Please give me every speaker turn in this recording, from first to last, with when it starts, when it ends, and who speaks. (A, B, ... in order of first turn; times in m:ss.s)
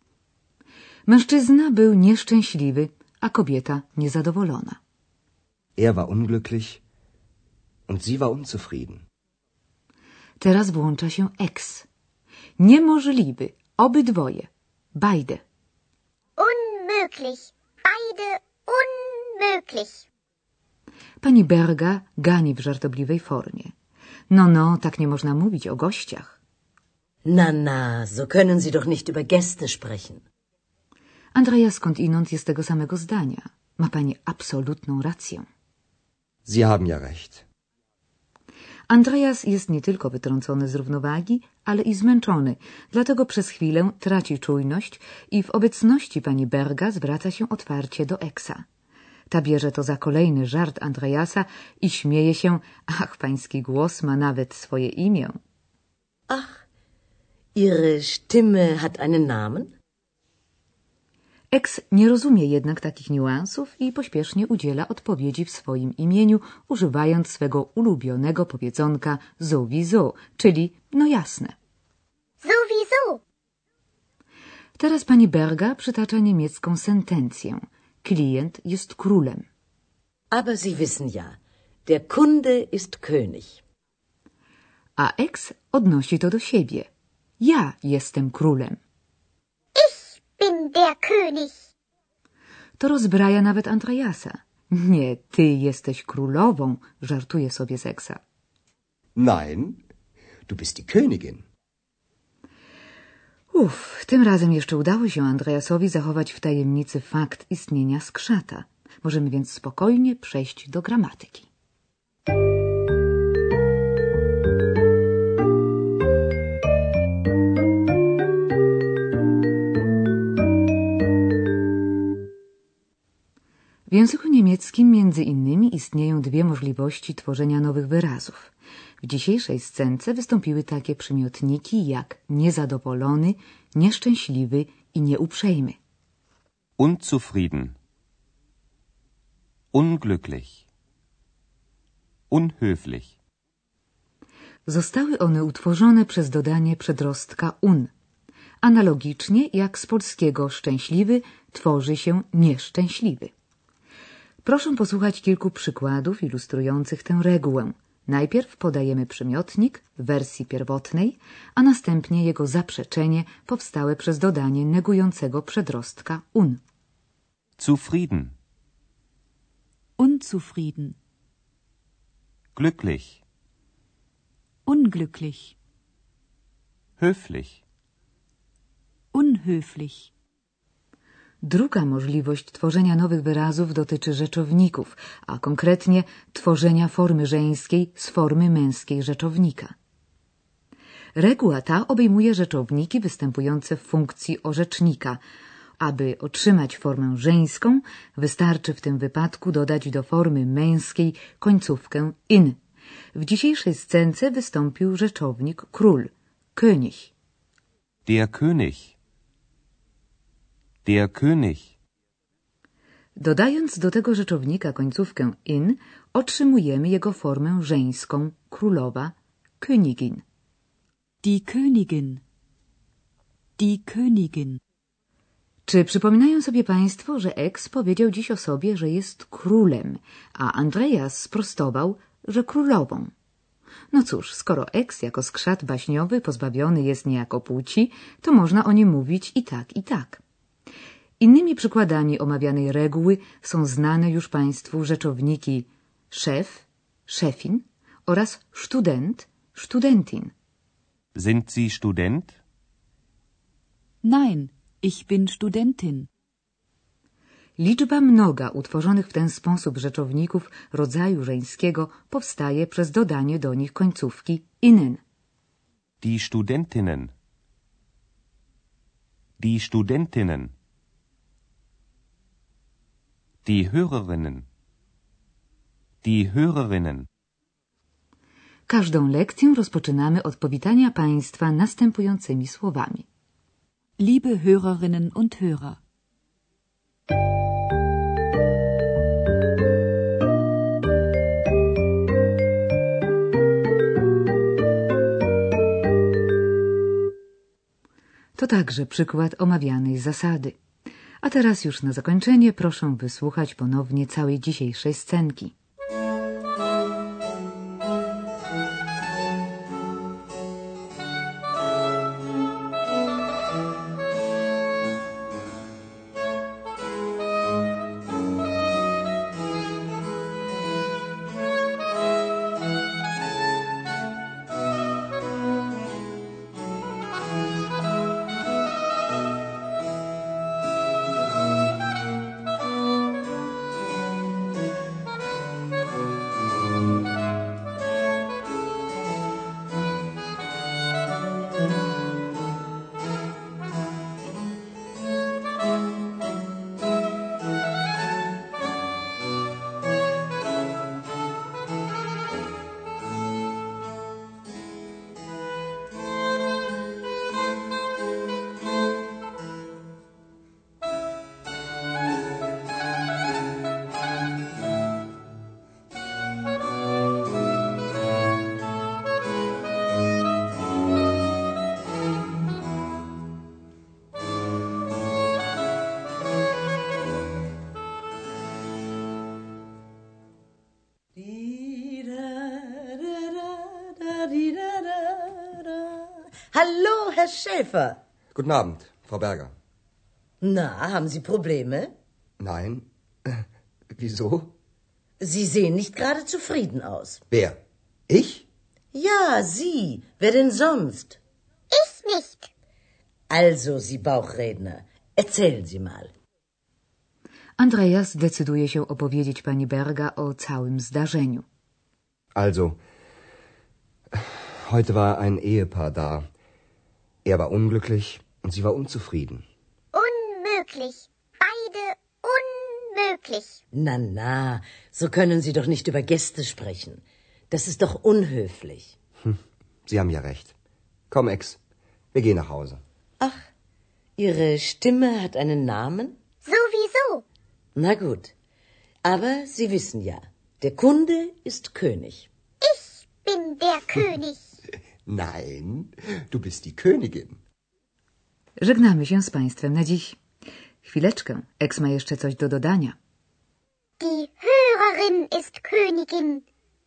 0:01.1-0:04.8 A
0:05.8-0:06.8 B
0:07.9-0:09.0 B
0:10.4-0:11.9 A
0:12.6-0:15.4 A
0:16.4-0:20.0 C
0:21.2-0:23.7 A
0:24.3-0:26.4 A
0:27.2-0:30.2 D
0:31.3-0:35.4 A
0:36.4-0:37.4 B
0:38.9-0:48.6 A
0:49.3-0:55.4 A
0:56.3-0:56.6 D
0:57.6-0:59.7 D
1:01.5-1:11.5 A
1:12.4-1:13.2 C
1:14.8-1:19.5 A
1:20.3-1:23.6 D
1:25.0-1:26.9 A
1:27.4-1:28.8 A
1:29.7-1:31.6 C
1:32.8-1:38.2 A
1:39.2-1:39.8 B
1:40.5-1:41.4 B
1:43.5-1:51.5 A
2:03.9-2:15.8 A
2:16.8-2:17.7 E
2:19.7-2:20.6 E
2:22.3-2:23.1 E
2:24.7-2:27.9 A
2:28.6-2:33.3 A
2:34.4-2:46.6 A
2:47.6-2:48.3 E
2:50.0-2:51.0 F
2:52.5-2:53.2 E
2:54.6-2:55.5 F
2:57.0-2:57.6 E
2:59.1-3:00.1 F
3:01.4-3:09.7 A
3:11.1-3:15.2 A
3:15.8-3:22.6 A
3:23.1-3:27.1 A
3:28.0-3:28.9 E
3:30.8-3:31.7 E
3:33.2-3:40.2 A
3:41.2-3:42.2 F
3:43.6-3:44.6 F
3:45.6-3:53.1 A
3:53.9-4:00.2 A
4:01.2-4:10.3 A
4:11.1-4:12.4 E
4:14.0-4:16.1 F
4:17.6-4:25.0 A
4:26.0-4:27.1 E
4:29.4-4:30.5 E
4:33.4-4:34.4 E
4:36.0-4:37.1 E
4:38.7-4:43.0 A
4:44.0-4:45.8 F
4:58.4-5:00.6 A
5:01.2-5:05.5 A
6:21.2-6:28.0 D
6:28.3-6:29.5 B
6:30.4-6:31.9 D
6:32.4-6:34.5 B
6:35.2-6:37.2 D
6:37.3-6:37.6 B
6:38.1-6:38.4 B
6:38.9-6:41.2 D
6:41.7-6:42.5 C
6:43.3-6:46.1 D
6:47.6-6:51.4 A
6:52.3-6:52.8 B
6:54.1-6:56.3 B
6:57.2-6:59.4 B
6:59.9-7:03.6 C
7:03.7-7:08.9 D
7:09.2-7:10.5 B
7:11.1-7:11.6 B
7:12.1-7:12.8 B
7:14.2-7:16.2 D
7:16.4-7:17.2 C
7:17.8-7:18.3 D
7:19.0-7:22.3 D
7:22.6-7:24.4 C
7:25.0-7:27.4 B
7:28.6-7:30.2 A
7:30.8-7:33.0 A
7:34.0-7:36.4 C